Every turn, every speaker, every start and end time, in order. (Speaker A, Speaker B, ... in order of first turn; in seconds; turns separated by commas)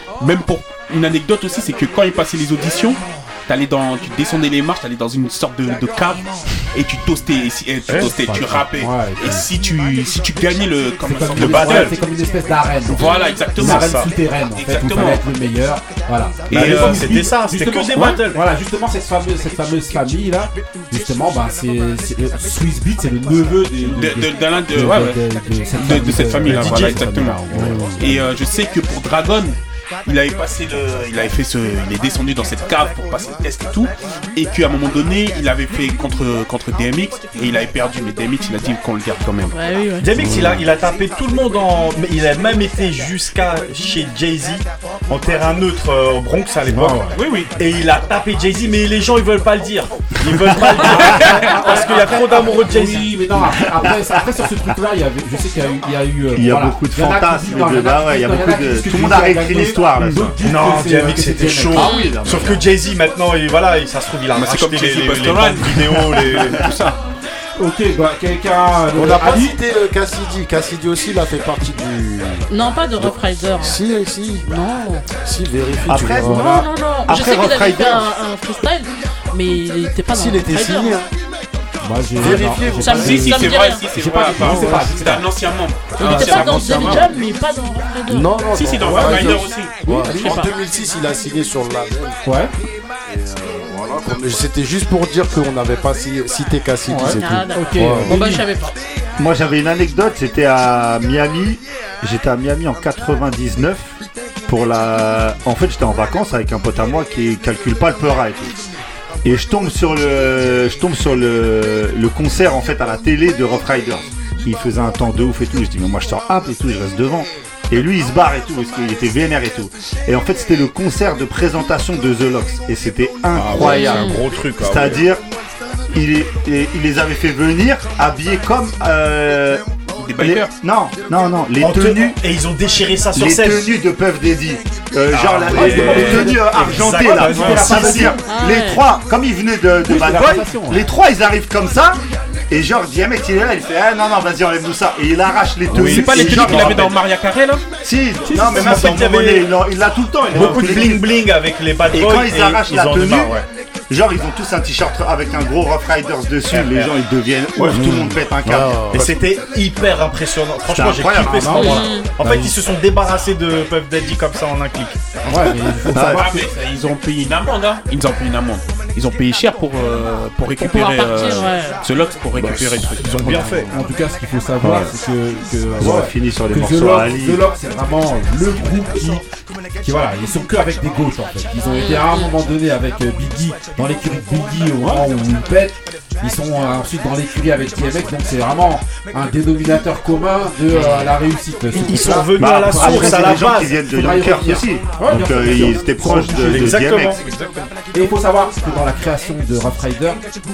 Speaker A: 0.2-11.9, Speaker B: 7.9-9.5, Speaker B: 11.0-28.2, Speaker C: 11.3-11.9, Speaker A: 12.9-15.2, Speaker C: 13.5-14.1, Speaker A: 16.5-18.2, Speaker C: 16.5-18.4, Speaker A: 23.8-39.5, Speaker C: 26.4-27.0, Speaker D: 27.5-28.1, Speaker E: 39.5-40.1, Speaker C: 40.0-53.1, Speaker D: 40.2-40.7, Speaker B: 46.7-47.1, Speaker A: 47.1-47.5, Speaker B: 50.8-61.9, Speaker A: 51.1-51.4, Speaker F: 53.7-54.2, Speaker F: 56.3-60.3, Speaker A: 60.0-60.3, Speaker C: 60.4-66.7, Speaker F: 61.7-62.6, Speaker E: 61.8-62.2, Speaker A: 64.3-67.0, Speaker B: 67.6-69.5, Speaker D: 68.9-74.5, Speaker E: 72.5-73.8, Speaker E: 74.4-75.1, Speaker D: 75.1-76.6, Speaker F: 75.8-78.1, Speaker E: 76.2-81.0, Speaker D: 80.1-81.1, Speaker B: 81.8-85.2, Speaker D: 82.2-83.5, Speaker E: 82.3-83.9, Speaker A: 82.9-87.1, Speaker D: 84.3-84.9, Speaker E: 85.9-88.5, Speaker B: 86.0-86.4, Speaker D: 86.1-87.0, Speaker D: 88.1-92.3, Speaker A: 88.5-90.4, Speaker B: 88.8-89.4, Speaker E: 89.9-90.6, Speaker B: 92.2-92.5, Speaker D: 93.0-98.2, Speaker B: 96.9-98.4, Speaker E: 97.0-98.8, Speaker F: 99.2-103.9, Speaker F: 104.5-108.6, Speaker F: 109.2-125.2, Speaker B: 123.4-123.7, Speaker C: 123.4-125.0, Speaker E: 123.5-124.2, Speaker F: 125.9-132.2, Speaker A: 130.0-130.5, Speaker C: 131.6-133.8, Speaker F: 133.1-146.9, Speaker C: 135.1-138.1, Speaker B: 135.5-138.2, Speaker A: 137.1-138.0, Speaker E: 138.2-138.8, Speaker B: 139.8-140.8, Speaker A: 145.7-147.7, Speaker F: 147.8-151.2, Speaker B: 148.2-149.0, Speaker C: 148.7-149.5, Speaker C: 150.3-153.4, Speaker F: 151.9-153.4, Speaker F: 153.9-158.8, Speaker C: 156.5-156.9, Speaker D: 157.7-159.1, Speaker C: 158.9-165.0, Speaker F: 160.7-161.8, Speaker B: 161.2-162.5, Speaker E: 161.5-162.1, Speaker B: 165.2-166.4, Speaker F: 165.9-166.3, Speaker A: 166.0-173.6, Speaker E: 170.6-171.8, Speaker C: 172.4-173.7, Speaker D: 172.4-172.8, Speaker B: 173.2-179.2, Speaker F: 174.6-174.9, Speaker F: 175.8-177.4, Speaker B: 179.8-196.8, Speaker E: 181.6-182.3, Speaker C: 191.8-193.7, Speaker F: 191.9-197.2, Speaker C: 196.1-197.7, Speaker B: 197.9-200.2